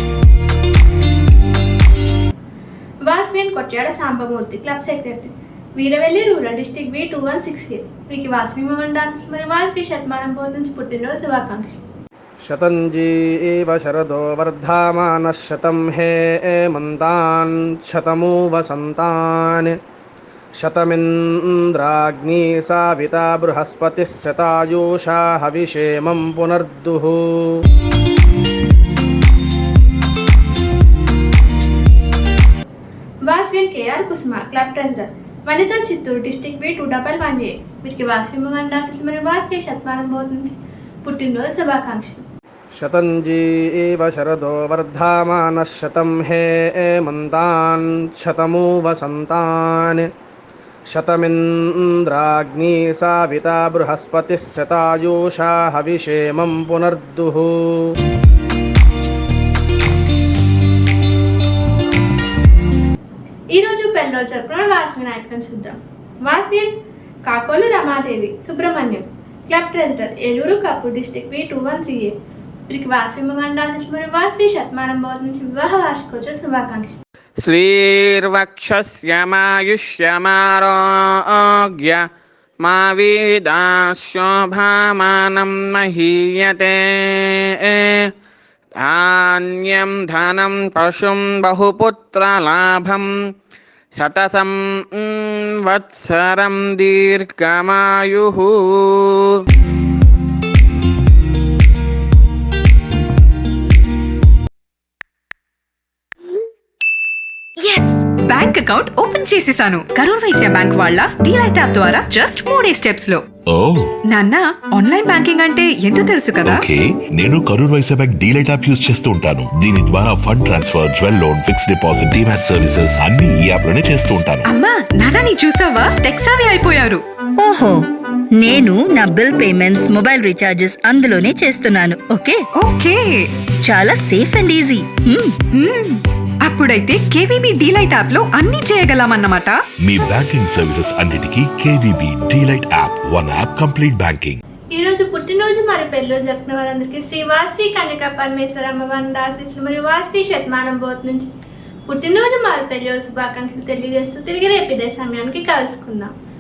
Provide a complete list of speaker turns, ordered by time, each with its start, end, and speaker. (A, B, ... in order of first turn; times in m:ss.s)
0:03.1-0:11.9 A
0:12.4-0:19.7 B
0:20.6-0:27.5 B
0:33.2-0:42.2 A
0:42.8-0:50.0 B
0:50.9-0:57.9 B
1:03.5-1:06.7 A
1:07.2-1:12.2 A
1:12.7-1:17.0 A
1:17.4-1:20.8 C
1:21.3-1:22.0 C
1:22.6-1:26.8 C
1:28.8-1:33.1 C
1:34.0-1:38.5 C
1:47.6-1:53.2 D
1:53.5-1:54.0 E
1:54.1-1:56.6 D
1:56.4-2:04.5 E
2:04.5-2:07.0 D
2:07.4-2:07.8 F
2:08.4-2:12.4 F
2:12.6-2:13.2 D
2:13.6-2:15.4 F
2:15.6-2:19.6 D
2:19.8-2:24.4 E
2:24.7-2:31.3 A
2:31.9-2:36.1 A